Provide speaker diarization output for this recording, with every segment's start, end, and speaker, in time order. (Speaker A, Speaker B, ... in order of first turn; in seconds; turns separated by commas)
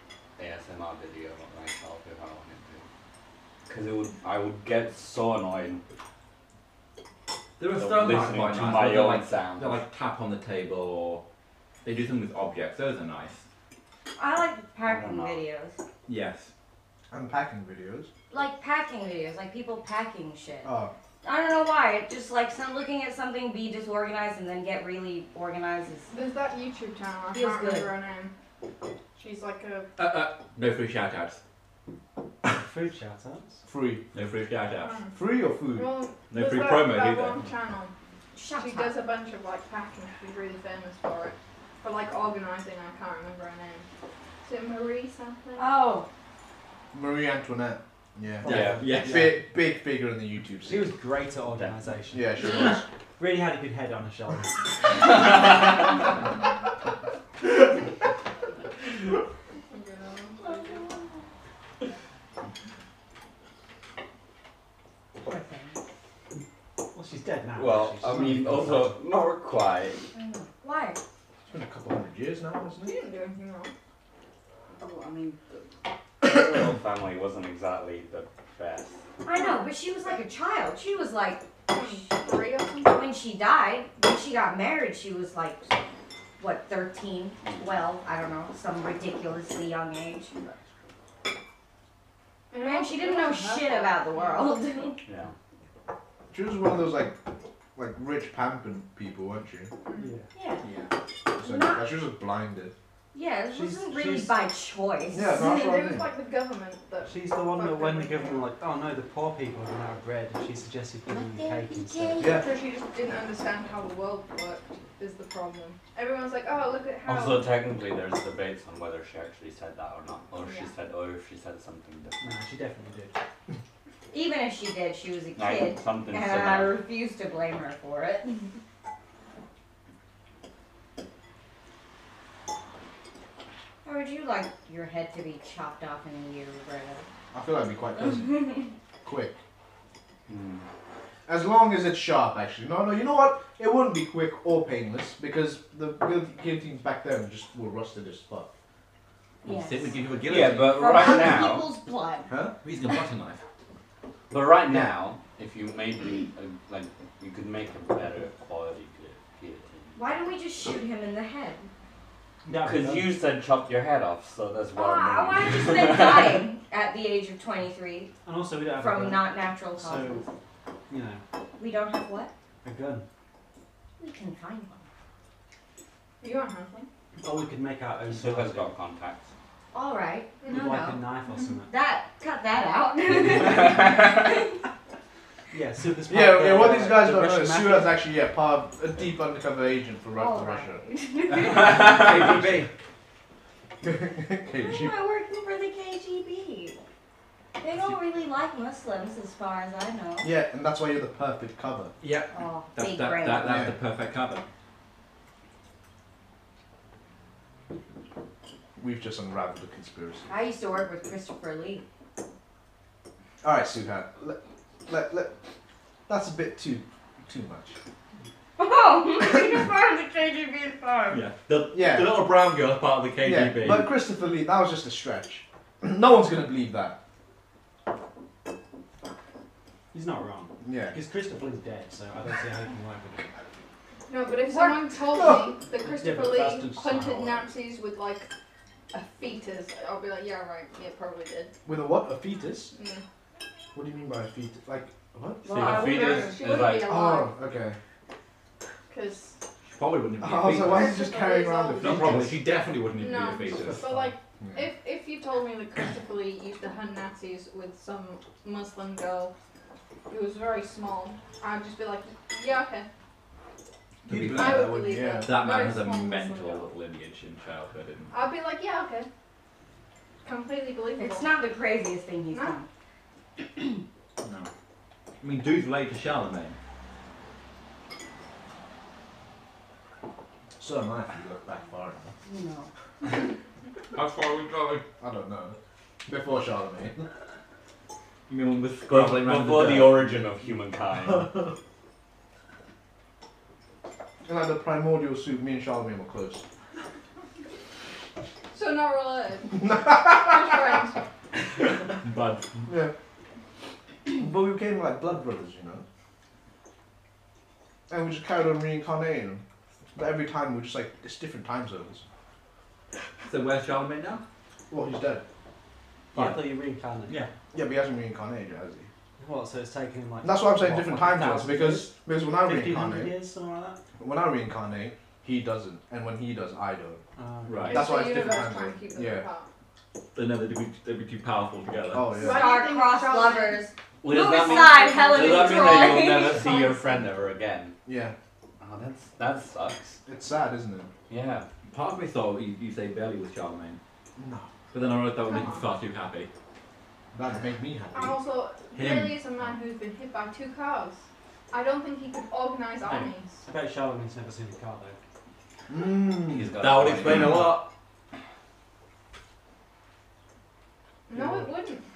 Speaker A: 0.4-2.9, Speaker A: 3.7-5.8, Speaker B: 7.6-11.2, Speaker A: 7.8-9.8, Speaker B: 11.8-13.4, Speaker C: 14.2-15.8, Speaker A: 14.8-15.4, Speaker B: 16.1-16.5, Speaker D: 17.1-18.1, Speaker C: 18.3-20.7, Speaker D: 20.6-20.9, Speaker C: 21.2-26.1, Speaker E: 26.1-28.3, Speaker C: 27.3-27.9, Speaker E: 29.1-29.9, Speaker B: 30.0-31.4, Speaker F: 32.5-33.6, Speaker D: 33.6-34.0, Speaker B: 34.1-35.0, Speaker E: 34.8-35.1, Speaker D: 35.1-36.0, Speaker E: 35.7-37.9, Speaker B: 36.3-37.4, Speaker C: 38.3-39.0, Speaker E: 38.6-43.8, Speaker E: 44.4-45.8, Speaker C: 45.6-46.1, Speaker D: 46.9-50.9, Speaker F: 48.4-49.3, Speaker A: 48.5-48.8, Speaker B: 48.5-49.4, Speaker F: 50.7-52.7, Speaker D: 52.1-52.9, Speaker C: 52.4-52.7, Speaker F: 53.2-54.9, Speaker E: 59.7-60.9, Speaker C: 65.2-65.8, Speaker F: 66.9-69.0, Speaker A: 67.6-70.0, Speaker C: 70.1-71.0, Speaker D: 71.5-73.0, Speaker E: 72.8-73.7, Speaker A: 74.7-75.6, Speaker A: 76.2-79.0, Speaker C: 79.2-85.7, Speaker E: 79.3-80.2, Speaker E: 81.7-83.1, Speaker C: 86.4-90.3, Speaker E: 92.5-94.7, Speaker C: 92.5-95.0, Speaker A: 95.1-95.3, Speaker D: 96.3-97.2, Speaker D: 97.7-99.7, Speaker E: 99.8-100.1, Speaker F: 100.0-100.3, Speaker C: 100.3-100.6, Speaker B: 100.6-100.9, Speaker D: 101.3-102.7, Speaker C: 101.3-101.9, Speaker C: 103.1-105.8, Speaker F: 103.5-104.3, Speaker D: 105.1-106.1, Speaker E: 105.3-108.5, Speaker F: 107.0-112.3, Speaker C: 111.1-112.5, Speaker D: 112.2-112.5, Speaker E: 112.2-117.5, Speaker A: 117.0-122.4, Speaker E: 120.3-120.7, Speaker F: 122.2-123.2, Speaker C: 124.1-128.5, Speaker A: 125.3-126.8, Speaker C: 133.8-137.1, Speaker D: 137.3-139.4, Speaker A: 140.3-140.7, Speaker D: 141.3-148.5, Speaker B: 149.4-151.3, Speaker C: 149.4-152.3, Speaker A: 150.3-151.7, Speaker D: 152.3-152.6, Speaker B: 152.6-153.4, Speaker A: 154.3-160.0, Speaker C: 159.9-161.7, Speaker F: 162.4-163.1, Speaker A: 162.6-166.4, Speaker C: 164.7-168.1, Speaker F: 168.2-170.2, Speaker C: 168.7-170.3, Speaker F: 170.9-171.2, Speaker C: 171.6-172.3, Speaker F: 172.6-173.1, Speaker C: 174.0-174.8, Speaker E: 176.2-176.9, Speaker F: 177.2-178.7, Speaker A: 178.1-179.3, Speaker C: 179.7-181.0, Speaker E: 180.4-180.8, Speaker F: 180.5-181.7, Speaker C: 181.7-184.6, Speaker F: 185.5-188.0, Speaker D: 186.1-190.8, Speaker C: 190.1-192.0, Speaker B: 191.3-192.7, Speaker F: 192.2-192.5, Speaker D: 193.8-194.9, Speaker C: 194.6-196.8, Speaker C: 197.6-200.3, Speaker D: 200.2-201.9, Speaker B: 202.0-204.4, Speaker C: 202.3-203.7, Speaker D: 203.4-203.7, Speaker D: 208.8-210.3, Speaker C: 210.3-211.8, Speaker D: 213.4-215.3, Speaker D: 216.1-217.8, Speaker C: 218.6-221.2, Speaker B: 221.1-223.9, Speaker D: 221.7-222.2, Speaker D: 223.2-227.0, Speaker F: 229.9-233.3, Speaker D: 230.6-230.9, Speaker E: 234.1-238.3, Speaker C: 234.5-234.8, Speaker D: 235.2-235.5, Speaker F: 235.7-237.4, Speaker E: 238.9-241.5, Speaker D: 241.7-242.7, Speaker E: 242.7-243.0, Speaker D: 243.7-245.7, Speaker C: 245.4-246.3, Speaker A: 245.5-247.0, Speaker B: 245.6-246.2, Speaker E: 245.6-247.3, Speaker D: 246.8-247.8, Speaker E: 248.9-249.4, Speaker B: 249.7-251.0, Speaker D: 250.2-252.4, Speaker E: 250.6-252.2, Speaker B: 251.8-254.1, Speaker E: 252.9-259.3, Speaker D: 254.4-254.7, Speaker E: 260.1-262.9, Speaker B: 264.0-268.1, Speaker D: 264.1-265.4, Speaker E: 264.2-266.7, Speaker E: 268.1-269.1, Speaker E: 270.2-271.3, Speaker C: 271.0-272.7, Speaker E: 272.3-272.6, Speaker C: 273.4-273.8, Speaker B: 274.2-274.5, Speaker B: 275.2-276.6, Speaker D: 280.6-282.1, Speaker C: 282.2-282.7, Speaker B: 283.9-284.8, Speaker D: 285.0-287.0, Speaker B: 288.3-290.2, Speaker A: 288.9-291.4, Speaker D: 294.2-296.4, Speaker E: 298.5-301.0, Speaker D: 299.5-300.7, Speaker B: 301.5-302.7, Speaker D: 302.7-302.9, Speaker D: 304.1-305.8, Speaker D: 307.9-309.4, Speaker D: 309.9-312.0, Speaker B: 313.2-314.2, Speaker D: 314.7-315.2, Speaker B: 316.1-316.4, Speaker F: 316.1-317.3, Speaker D: 317.5-318.9, Speaker F: 319.2-323.8, Speaker D: 320.2-323.2, Speaker D: 324.0-327.0, Speaker F: 327.2-327.8, Speaker B: 327.4-328.3, Speaker D: 327.7-329.2, Speaker E: 327.7-329.5, Speaker B: 330.1-332.1, Speaker D: 331.9-332.6, Speaker E: 332.1-333.7, Speaker C: 332.2-337.1, Speaker A: 334.0-337.8, Speaker B: 334.1-334.6, Speaker E: 334.4-335.9, Speaker D: 337.9-338.1, Speaker A: 338.6-340.0, Speaker D: 340.1-340.9, Speaker A: 341.1-341.5, Speaker B: 341.7-343.8, Speaker D: 344.2-344.6, Speaker B: 344.7-346.3, Speaker E: 345.2-345.7, Speaker D: 347.1-348.2, Speaker E: 347.9-353.4, Speaker B: 348.7-349.2, Speaker F: 352.9-355.0, Speaker D: 355.7-356.5, Speaker A: 356.3-357.5, Speaker B: 356.6-357.7, Speaker E: 361.1-361.8, Speaker F: 361.1-361.5